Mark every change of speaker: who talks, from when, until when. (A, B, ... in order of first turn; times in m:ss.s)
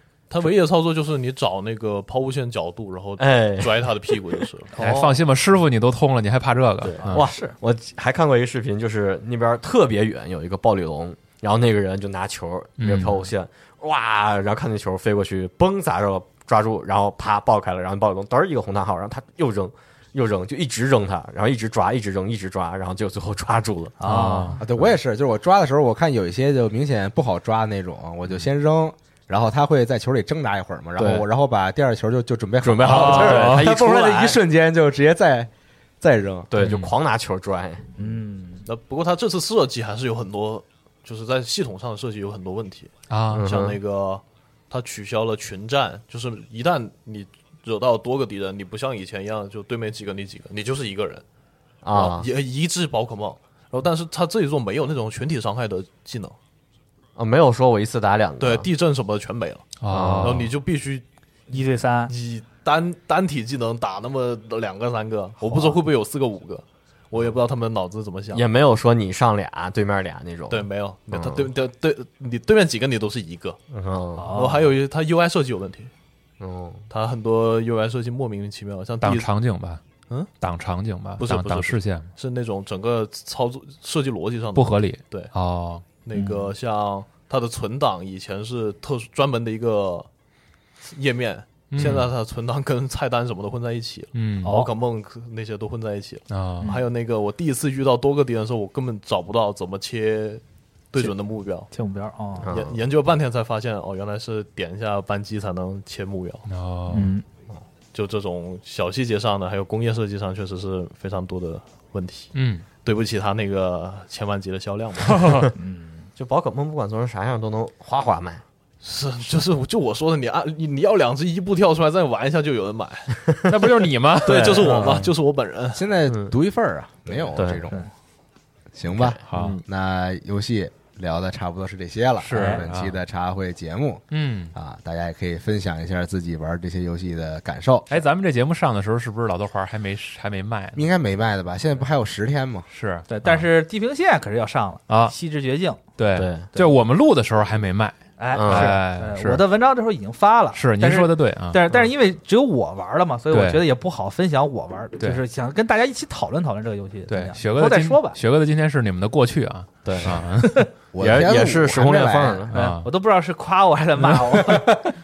0:00.3-0:04.7 A
0:03.2-0:04.5 B
0:04.7-0:05.2 C
0:04.8-0:07.2 D
0:06.8-0:24.9 B
0:07.1-0:07.6 C
0:12.8-0:13.3 D
0:24.0-0:24.6 C
0:24.0-0:24.6 D
0:24.6-0:35.5 E
0:31.0-0:31.3 B
0:32.6-0:34.4 B
0:32.9-0:33.7 D
0:36.0-0:36.5 E
0:36.5-0:37.9 B
0:36.6-0:36.9 D
0:38.0-0:38.6 C
0:38.7-0:51.2 A
0:43.1-0:43.5 D
0:43.3-0:43.8 B
0:51.8-0:52.3 B
0:51.9-0:56.4 A
0:57.2-0:58.7 B
0:58.4-1:01.0 A
0:59.8-1:00.5 D
0:59.9-1:00.5 B
1:01.5-1:02.1 C
1:02.1-1:08.5 A
1:05.4-1:05.8 C
1:08.3-1:11.5 B
1:10.5-1:13.6 A
1:13.7-1:14.4 B
1:14.2-1:14.7 C
1:14.3-1:15.9 A
1:16.4-1:16.9 B
1:16.9-1:19.3 A
1:19.0-1:19.8 D
1:20.4-1:22.1 D
1:21.2-1:25.3 A
1:24.6-1:25.8 D
1:26.0-1:30.1 A
1:26.1-1:26.5 C
1:30.8-1:41.7 A
1:31.7-1:32.1 D
1:34.1-1:34.5 D
1:34.4-1:34.7 C
1:36.3-1:36.7 D
1:36.6-1:36.9 C
1:41.7-1:42.6 C
1:42.4-1:42.8 B
1:42.4-1:46.4 A
1:46.5-1:47.1 D
1:46.9-1:47.2 C
1:47.9-1:52.3 A
1:52.3-1:52.6 D
1:52.8-1:55.4 A
1:55.1-1:55.5 D
1:55.6-1:56.1 C
1:56.2-1:58.4 B
1:58.8-2:03.2 A
2:03.4-2:05.1 D
2:04.2-2:05.8 A
2:04.3-2:04.8 B
2:05.7-2:07.9 E
2:06.1-2:06.4 B
2:07.2-2:07.7 B
2:08.7-2:18.0 E
2:08.9-2:09.6 B
2:09.3-2:09.6 D
2:12.2-2:13.0 D
2:12.4-2:12.6 C
2:14.1-2:14.5 D
2:17.9-2:20.9 D
2:20.8-2:22.7 E
2:22.7-2:23.5 D
2:23.1-2:25.8 C
2:24.9-2:25.1 D
2:26.0-2:29.4 D
2:26.2-2:26.5 B
2:28.2-2:38.2 C
2:28.3-2:28.8 B
2:30.5-2:31.8 D
2:33.3-2:33.6 D
2:37.1-2:40.6 D
2:39.8-2:40.2 B
2:40.9-2:42.5 E
2:41.0-2:42.6 B
2:42.5-2:42.9 D
2:42.5-2:44.8 C
2:44.1-2:44.8 E